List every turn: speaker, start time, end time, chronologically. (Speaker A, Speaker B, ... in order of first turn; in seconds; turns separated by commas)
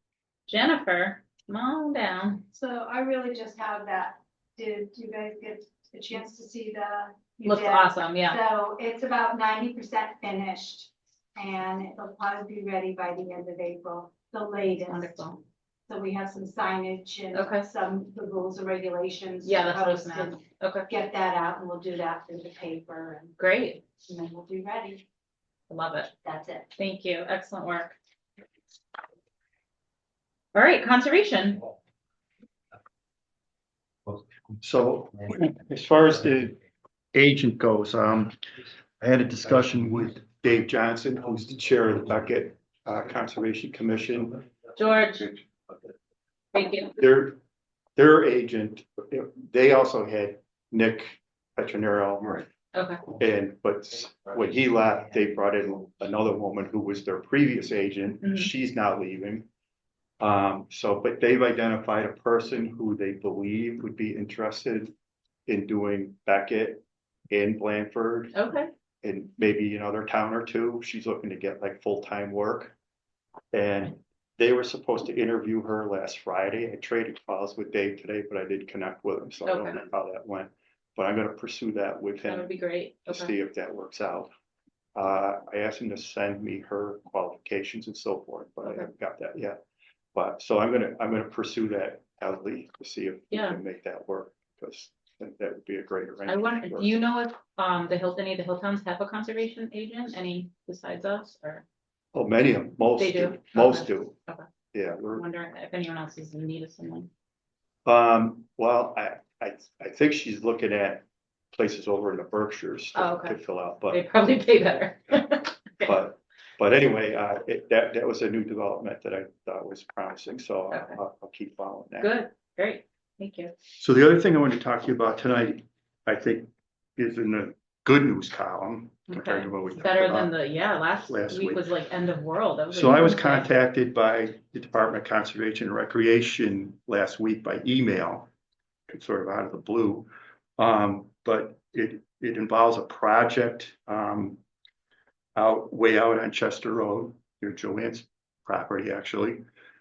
Speaker A: 0.5-2.4, Speaker B: 2.5-15.2, Speaker A: 7.4-8.4, Speaker A: 14.8-15.4, Speaker B: 15.9-23.3, Speaker A: 17.3-17.7, Speaker A: 19.4-20.9, Speaker A: 23.4-23.8, Speaker B: 24.0-25.0, Speaker A: 25.7-26.1, Speaker B: 26.2-26.7, Speaker A: 26.8-28.0, Speaker A: 30.5-31.6, Speaker C: 34.6-36.6, Speaker C: 37.1-38.3, Speaker C: 39.0-44.4, Speaker A: 44.8-45.3, Speaker A: 46.5-46.9, Speaker C: 47.0-47.4, Speaker C: 48.0-52.5, Speaker A: 52.7-53.0, Speaker C: 53.1-59.5, Speaker A: 58.2-58.5, Speaker C: 60.2-64.9, Speaker C: 65.5-68.3, Speaker A: 68.3-68.7, Speaker C: 69.0-72.7, Speaker C: 73.5-82.5, Speaker A: 79.4-79.8, Speaker A: 82.2-83.3, Speaker C: 83.1-84.3, Speaker C: 84.9-89.6, Speaker C: 90.2-96.9, Speaker A: 93.3-93.6, Speaker A: 96.3-101.6, Speaker C: 102.1-104.2, Speaker A: 103.0-104.5, Speaker C: 104.7-105.2, Speaker A: 105.2-107.1, Speaker C: 107.8-114.0, Speaker A: 112.9-113.4, Speaker A: 113.9-115.9, Speaker C: 115.8-122.1, Speaker A: 120.7-121.0, Speaker A: 122.0-123.5, Speaker C: 123.8-130.4, Speaker A: 129.1-133.5, Speaker C: 131.1-131.6, Speaker C: 132.7-138.3, Speaker C: 138.9-144.4, Speaker C: 145.4-149.4